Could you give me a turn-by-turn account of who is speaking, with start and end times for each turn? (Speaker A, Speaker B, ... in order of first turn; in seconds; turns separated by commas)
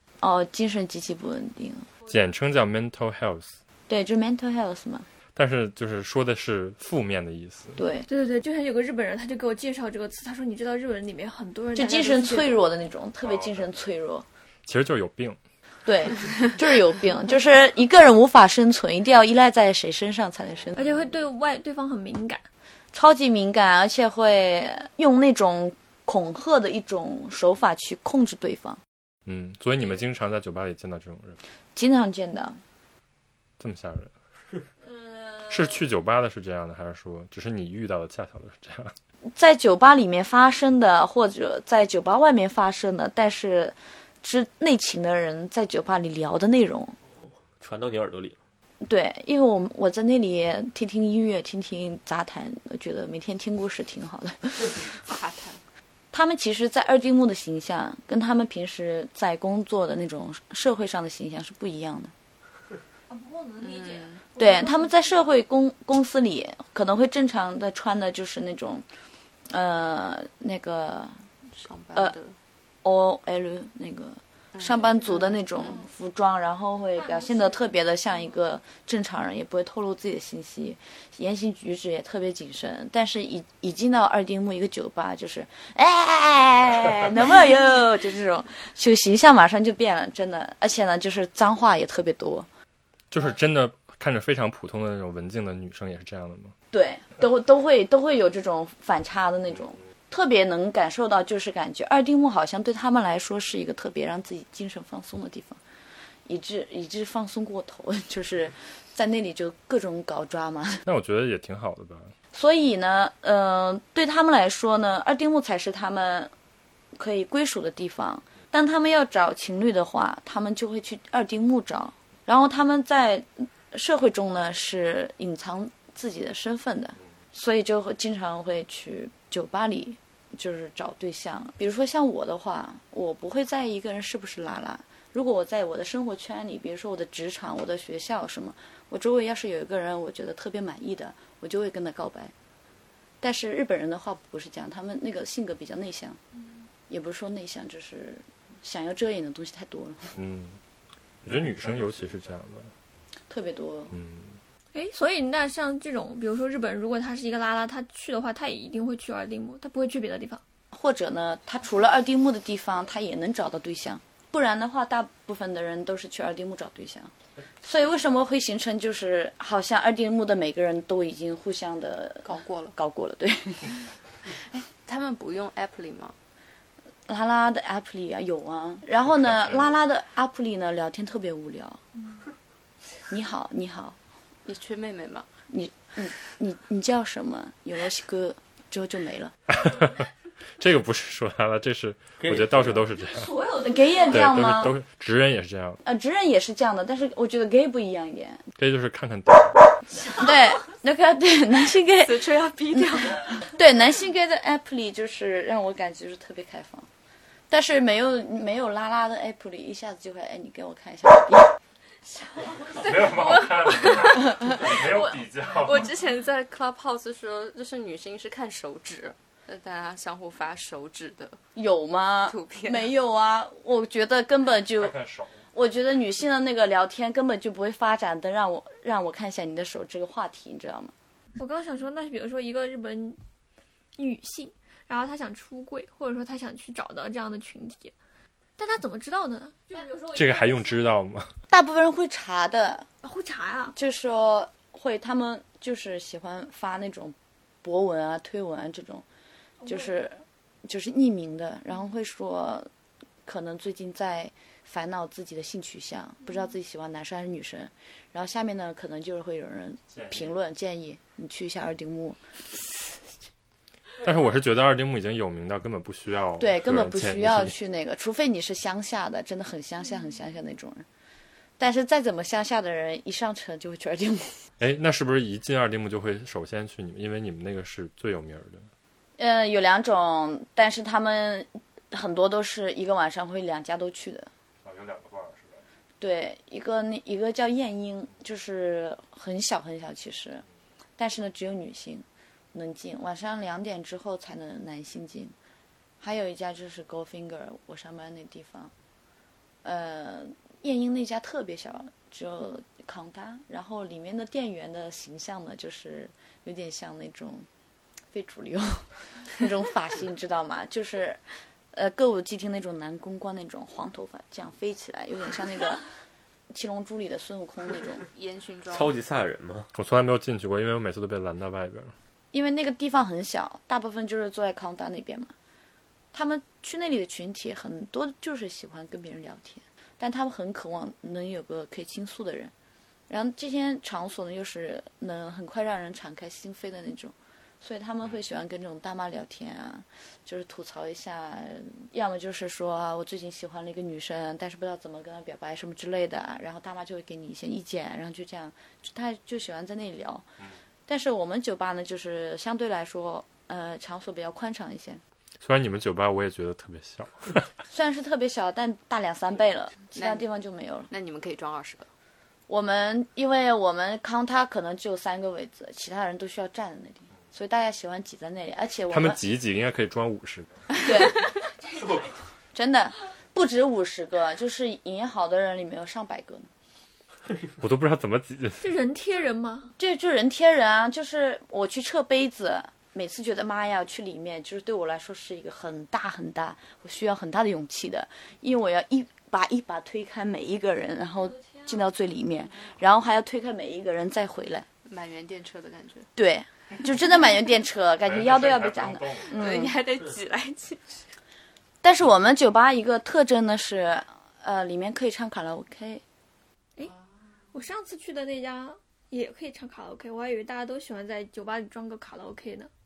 Speaker A: 0.2-1.9, Speaker B: 2.1-3.6, Speaker A: 3.9-5.1, Speaker B: 5.3-7.8, Speaker A: 7.8-8.1, Speaker C: 8.1-12.6, Speaker A: 11.8-14.2, Speaker B: 14.7-15.4, Speaker A: 15.8-21.0, Speaker C: 20.8-22.5, Speaker A: 22.9-28.8, Speaker B: 29.3-31.4, Speaker A: 31.8-32.6, Speaker B: 33.6-34.1, Speaker C: 34.9-35.4, Speaker B: 35.5-39.0, Speaker A: 39.3-47.0, Speaker D: 47.6-48.4, Speaker A: 48.8-54.9, Speaker E: 55.0-55.6, Speaker A: 56.1-62.1, Speaker C: 63.1-64.9, Speaker E: 63.6-64.2, Speaker A: 64.4-68.9, Speaker A: 69.5-71.2, Speaker E: 71.6-72.4, Speaker A: 72.8-92.5, Speaker E: 74.5-74.8, Speaker B: 93.1-96.5, Speaker A: 96.7-105.6, Speaker A: 106.3-110.8, Speaker B: 110.8-112.1, Speaker A: 112.3-116.3, Speaker A: 117.0-142.3, Speaker A: 143.2-146.2, Speaker A: 146.9-150.2, Speaker B: 150.2-150.6, Speaker B: 151.2-152.7, Speaker D: 151.3-151.8, Speaker A: 153.3-153.9, Speaker B: 153.9-154.4, Speaker C: 154.7-160.4, Speaker A: 160.7-173.9, Speaker E: 172.2-172.8, Speaker E: 174.6-176.2, Speaker A: 177.1-181.8, Speaker A: 183.1-184.0, Speaker E: 184.4-185.3, Speaker A: 185.5-189.3, Speaker B: 189.5-190.1, Speaker B: 190.6-193.3, Speaker D: 192.2-192.9, Speaker C: 193.1-194.3, Speaker A: 193.6-194.8, Speaker B: 194.1-195.8, Speaker A: 195.8-198.4, Speaker B: 198.6-199.6, Speaker A: 200.0-202.2, Speaker E: 202.0-203.4, Speaker A: 202.7-206.9, Speaker A: 207.5-211.5, Speaker E: 212.4-212.8, Speaker B: 212.7-215.9, Speaker E: 213.8-221.4, Speaker A: 221.6-224.9, Speaker E: 222.2-222.9, Speaker B: 224.8-225.4, Speaker A: 225.5-230.9, Speaker C: 231.4-233.2, Speaker C: 234.0-237.9, Speaker C: 238.6-240.5, Speaker B: 240.1-241.3, Speaker A: 241.5-242.9, Speaker C: 243.0-243.8, Speaker A: 243.7-249.1, Speaker A: 249.7-252.7, Speaker A: 253.2-262.2, Speaker B: 259.9-260.3, Speaker B: 264.0-267.5, Speaker A: 266.4-270.9, Speaker A: 271.6-274.4, Speaker B: 274.6-278.7, Speaker A: 279.2-284.3, Speaker B: 284.6-285.6, Speaker A: 286.0-290.4, Speaker A: 291.0-295.4, Speaker A: 296.0-298.7, Speaker A: 299.6-307.5, Speaker A: 308.1-311.2, Speaker A: 311.7-315.9, Speaker A: 316.5-318.1, Speaker E: 318.1-318.9, Speaker D: 318.7-319.7, Speaker B: 319.8-321.9, Speaker A: 322.3-325.3, Speaker A: 326.1-332.5, Speaker A: 333.1-350.2, Speaker A: 350.9-355.0, Speaker B: 355.4-357.5, Speaker A: 357.7-360.9, Speaker E: 359.9-360.2, Speaker E: 360.9-361.9, Speaker A: 362.5-369.2, Speaker B: 368.9-370.5, Speaker A: 370.8-371.2, Speaker A: 372.5-376.5, Speaker B: 377.6-378.6, Speaker C: 378.6-379.7, Speaker A: 379.8-394.7, Speaker C: 391.4-391.7, Speaker E: 394.9-396.1, Speaker A: 396.2-399.8, Speaker B: 398.0-399.4, Speaker E: 399.3-401.1, Speaker A: 401.8-406.0, Speaker C: 407.5-412.7